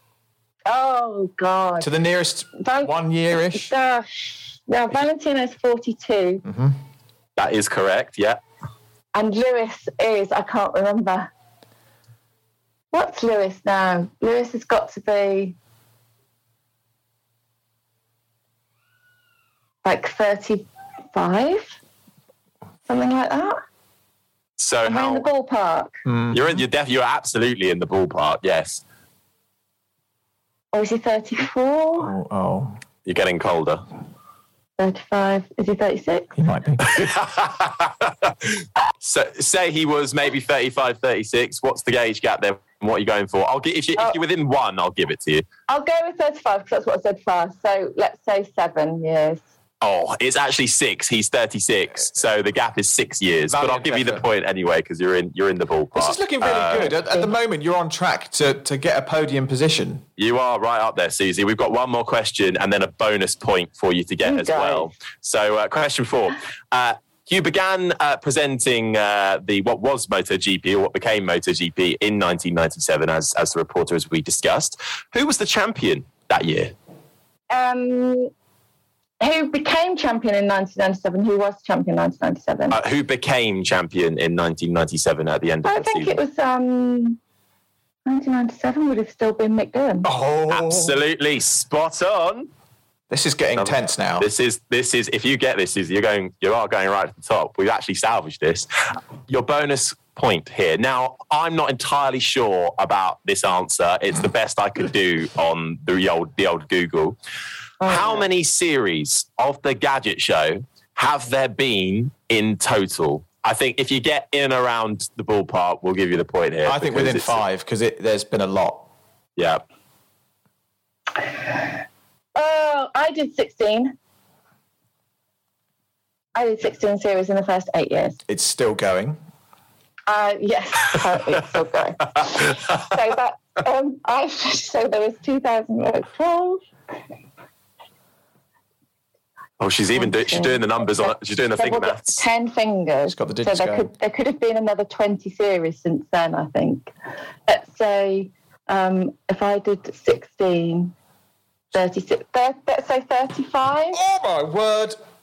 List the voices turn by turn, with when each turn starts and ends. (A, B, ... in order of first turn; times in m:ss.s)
0:00.7-0:01.9 A
0:01.8-0:03.7 B
0:02.6-0:02.9 A
0:03.5-0:06.4 A
0:06.4-0:06.8 B
0:07.4-0:08.4 C
0:09.1-0:11.3 A
0:12.9-0:15.5 A
0:19.8-0:21.8 A
0:22.9-0:23.6 A
0:24.6-0:25.2 C
0:24.8-0:26.0 A
0:26.0-0:26.6 B
0:26.3-0:28.8 C
0:30.7-0:32.1 A
0:32.0-0:32.8 B
0:33.0-0:33.8 C
0:34.8-0:36.3 A
0:36.3-0:36.9 B
0:36.8-0:38.5 C
0:39.0-0:45.4 C
0:45.7-0:49.4 A
0:49.8-0:56.9 C
0:53.5-0:54.2 B
0:55.9-1:00.0 B
0:56.8-0:57.3 A
1:00.2-1:16.7 C
1:04.2-1:04.9 A
1:17.5-1:18.3 A
1:19.2-1:22.8 A
1:22.7-1:26.2 C
1:25.6-1:27.2 A
1:28.0-1:30.1 A
1:30.0-1:31.0 B
1:30.5-1:32.5 C
1:33.1-1:34.3 B
1:33.6-1:38.7 C
1:39.3-1:47.2 C
1:47.8-1:48.3 A
1:47.8-1:57.4 C
1:56.6-1:58.8 B
1:59.4-1:59.6 C
2:02.4-2:03.9 A
2:06.3-2:08.2 A
2:08.3-2:09.2 B
2:10.1-2:16.6 A
2:19.6-2:22.2 C
2:19.9-2:26.9 A
2:23.0-2:23.9 B
2:27.5-2:30.9 A
2:31.7-2:34.0 A
2:33.9-2:35.0 B